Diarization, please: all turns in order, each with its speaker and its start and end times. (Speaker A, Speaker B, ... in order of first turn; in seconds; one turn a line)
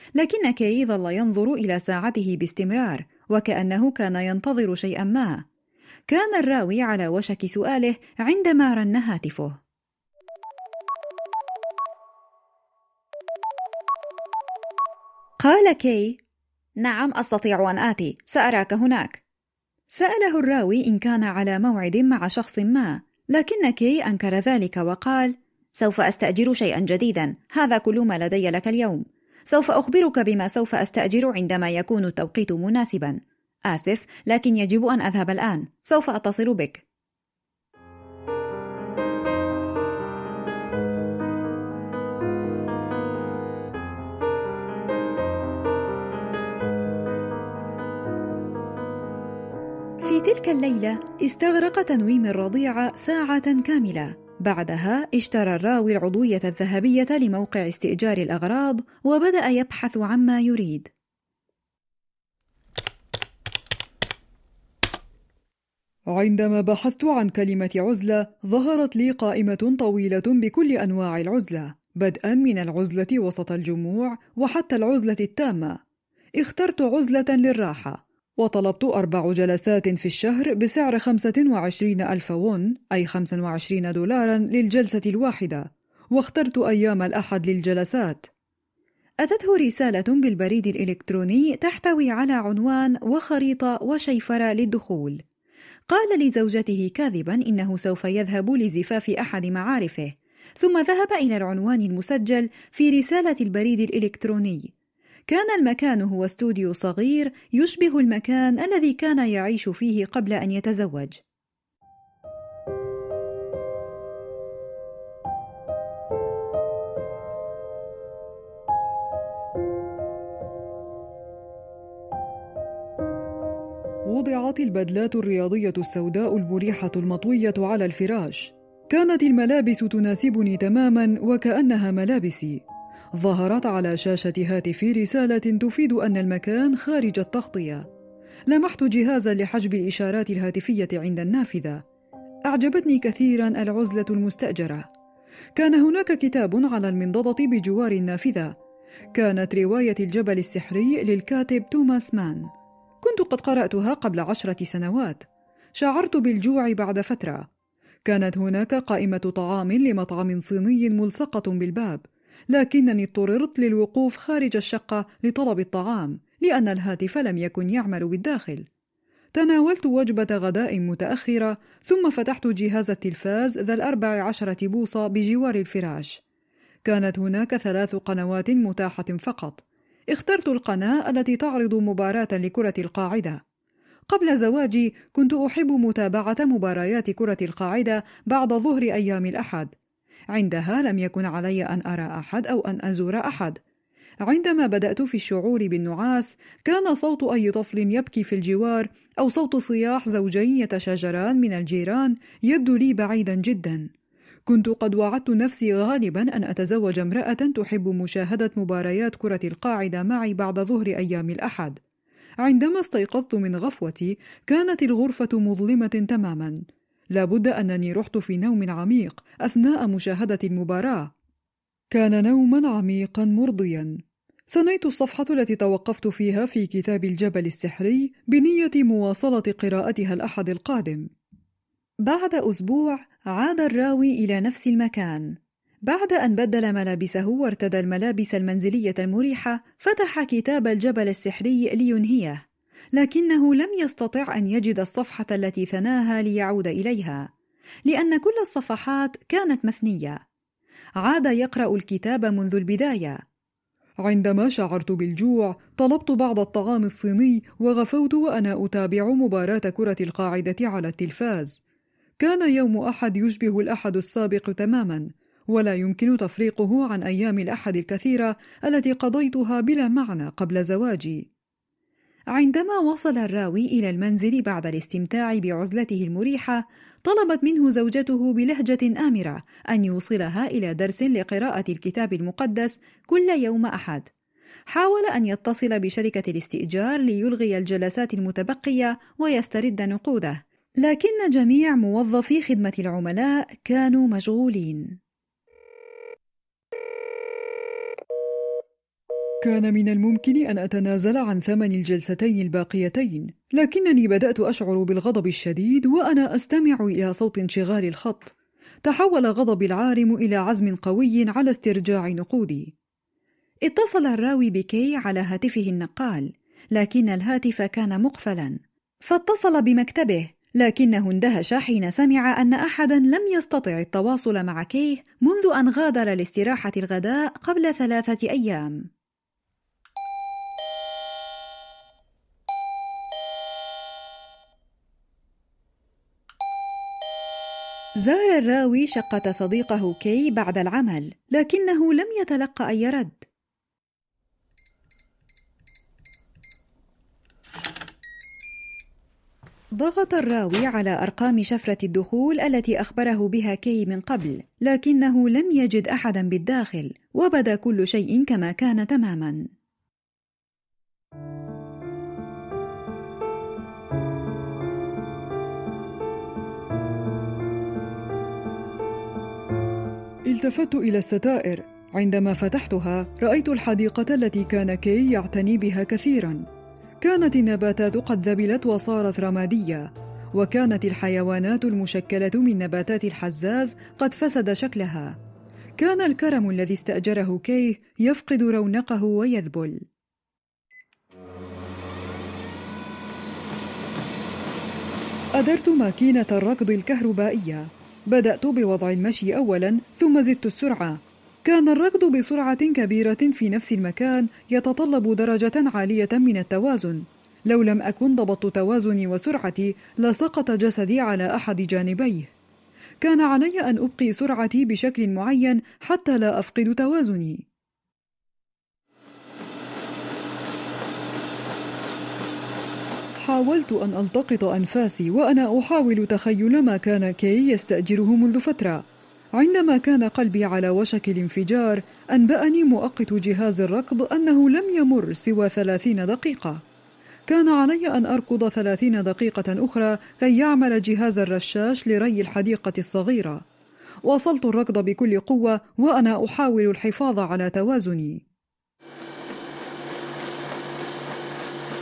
Speaker A: 0.2-5.4
Speaker A: 6.1-9.6
Speaker A: 15.4-16.2
Speaker A: 16.8-19.2
Speaker A: 19.9-36.8
Speaker A: 50.0-60.9
Speaker B: 66.2-75.8
Speaker B: 76.4-88.2
Speaker A: 89.2-95.2
Speaker A: 95.9-104.7
Speaker A: 105.3-111.2
Speaker B: 124.1-132.6
Speaker B: 133.2-137.9
Speaker B: 138.5-141.8
Speaker B: 142.5-144.9
Speaker B: 145.6-148.5
Speaker B: 149.2-152.5
Speaker B: 153.0-155.2
Speaker B: 155.8-157.4
Speaker B: 158.1-168.6
Speaker B: 169.3-176.1
Speaker B: 176.9-179.6
Speaker B: 180.1-183.1
Speaker A: 182.1-183.4
Speaker B: 184.1-189.6
Speaker A: 187.7-187.9
Speaker A: 189.2-189.7
Speaker B: 190.4-190.7
Speaker A: 190.4-193.6
Speaker B: 194.3-203.8
Speaker A: 200.0-202.1
Speaker B: 204.5-211.7
Speaker A: 210.3-211.7
Speaker B: 212.4-216.6
Speaker B: 217.2-221.1
Speaker B: 221.9-223.9
Speaker B: 224.5-231.1
Speaker A: 232.0-235.4
Speaker A: 235.9-242.4
Speaker A: 242.9-247.3
Speaker A: 247.9-250.2
Speaker A: 251.0-253.2
Speaker B: 254.1-261.6
Speaker B: 262.2-271.1
Speaker A: 270.2-270.6
Speaker A: 272.3-284.1
Speaker A: 284.7-295.0
Speaker B: 299.4-308.3
Speaker B: 308.9-311.9
Speaker A: 311.0-312.7
Speaker A: 313.7-328.9
Speaker A: 338.0-343.2
Speaker A: 349.8-359.5
Speaker B: 370.3-376.4
Speaker B: 377.0-385.1
Speaker B: 385.8-389.8
Speaker B: 395.4-412.3
Speaker B: 413.0-417.4
Speaker B: 423.2-428.8
Speaker B: 429.4-436.6
Speaker B: 437.3-443.4
Speaker B: 444.1-448.2